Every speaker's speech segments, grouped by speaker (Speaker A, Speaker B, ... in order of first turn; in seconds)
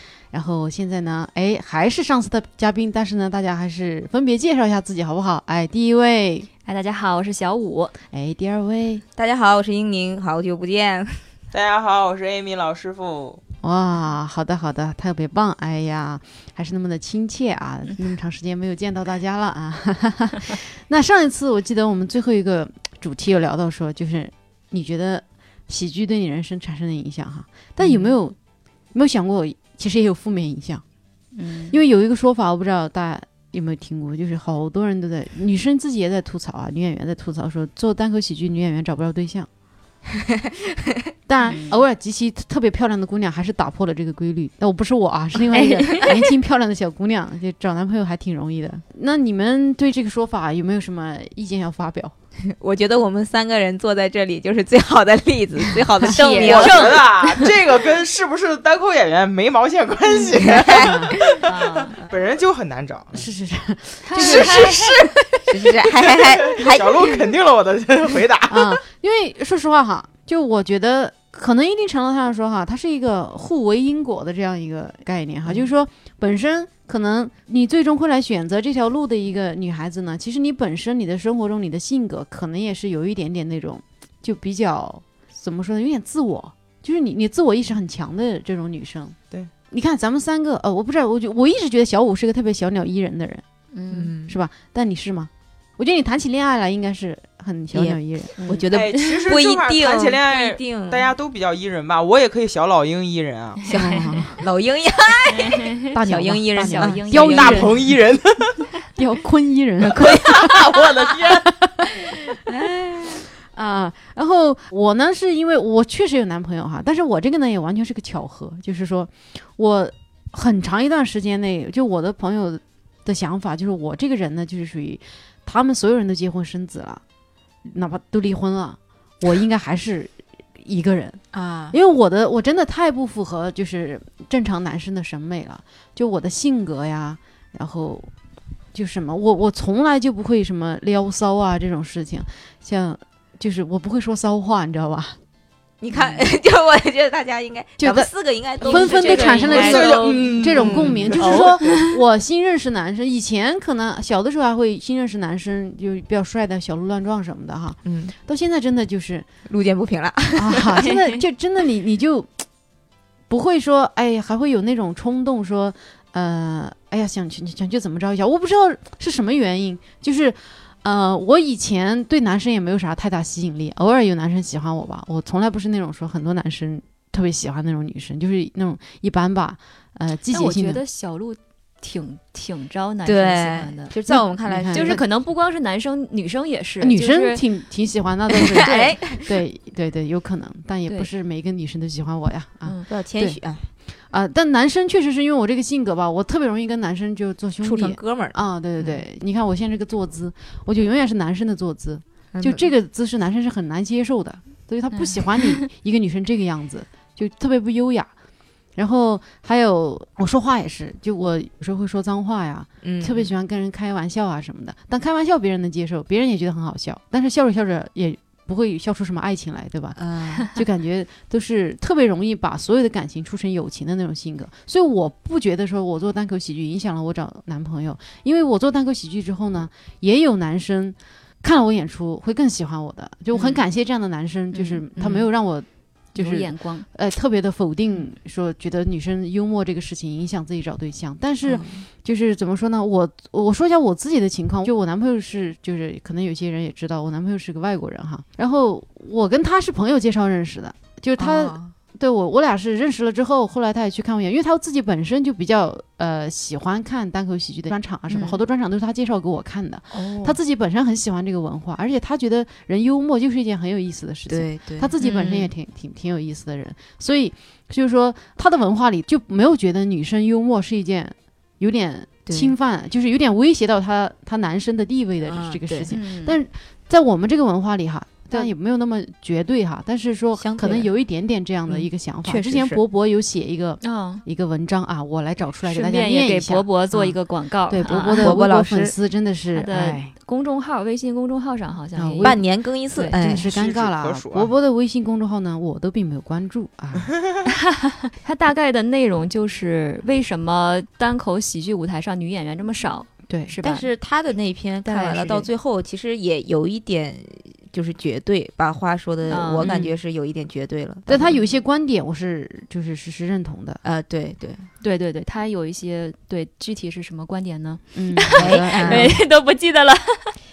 Speaker A: 0.3-6.5, 8.1-9.0, 13.6-28.4, 28.9-30.8, 31.7-39.5, 41.3-52.1, 60.7-61.1, 63.1-64.9, 68.5-89.2, 89.7-93.4, 94.2-98.4, 103.7-104.4, 105.9-107.9, 108.9-110.8, 111.5-111.8, 113.4-127.0, 127.6-138.1, 138.7-145.2, 147.8-159.3, 160.3-162.4, 163.3-180.8, 184.1-185.0, 186.8-193.4, 194.1-208.1, 208.8-287.1, 287.7-290.1, 291.9-292.4, 293.1-297.1, 303.3-303.5, 304.9-305.5, 309.6-309.9, 311.1-313.8, 317.9-319.2
Speaker B: 6.6-7.9, 31.3-31.8, 41.4-41.8, 45.5-46.1, 56.1-57.5, 61.4-62.0, 64.0-64.9, 93.7-94.1, 98.4-99.0, 105.3-105.9, 106.6-107.7, 148.6-150.3, 151.6-151.8, 180.3-183.9, 184.7-187.4, 188.6-189.0, 192.6-192.9, 236.1-236.8, 258.1-258.4, 275.7-276.4, 283.8-284.2, 285.6-288.4, 289.5-292.4, 292.9-293.2, 297.7-303.9, 309.3-309.7, 311.2-311.5, 314.8-320.3
Speaker C: 9.2-11.2, 52.5-57.0, 60.3-61.3, 64.2-64.5, 65.5-67.2, 93.9-94.3, 97.7-101.1, 103.7-107.7, 109.8-111.3, 112.0-113.2, 131.3-131.7, 145.8-151.5, 157.8-158.1, 159.4-160.8, 183.0-185.0, 188.3-189.2, 192.9-193.7, 197.6-199.0, 202.3-202.7, 212.8-213.3, 219.9-220.4, 234.5-235.3, 241.4-241.8, 251.2-251.7, 259.9-260.4, 264.3-265.5, 272.3-272.5, 275.2-275.9, 280.4-280.9, 281.7-282.8, 288.2-288.9, 292.2-293.5, 303.6-311.2, 313.8-314.7, 318.3-319.2
Speaker D: 11.5-13.4, 56.4-63.3, 66.1-68.8, 98.7-103.7, 107.2-108.5, 110.1-111.5, 149.4-151.5, 293.5-294.5